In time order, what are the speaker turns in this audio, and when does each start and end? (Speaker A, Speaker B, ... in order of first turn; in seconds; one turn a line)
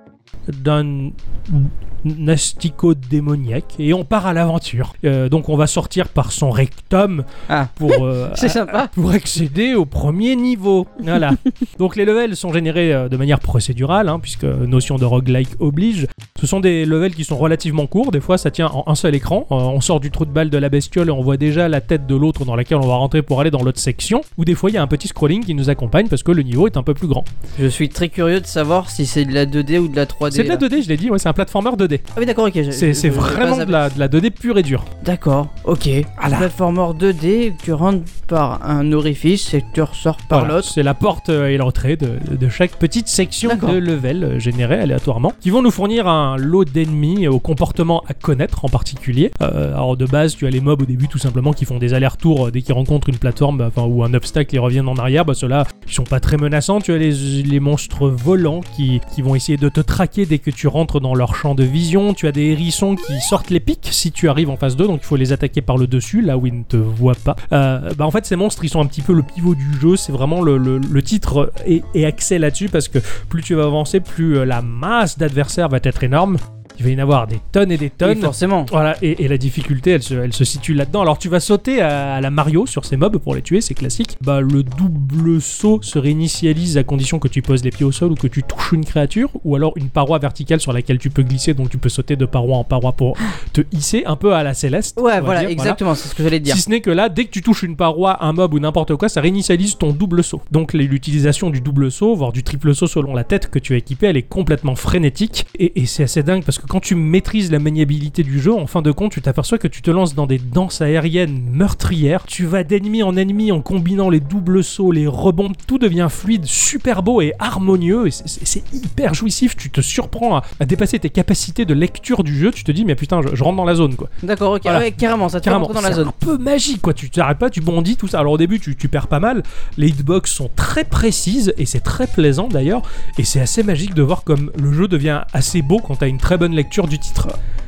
Speaker A: 0.5-27.3
Speaker B: 7.5-8.9
Speaker B: 27.6-30.6
Speaker A: 30.3-32.1
Speaker B: 32.2-33.8
Speaker A: 32.7-34.9
Speaker B: 35.0-40.7
Speaker A: 36.2-36.5
Speaker A: 40.3-95.8
Speaker B: 43.5-43.8
Speaker B: 78.0-78.7
Speaker B: 95.0-96.6
Speaker A: 96.5-124.1
Speaker B: 124.2-126.1
Speaker A: 124.6-124.9
Speaker A: 125.4-137.3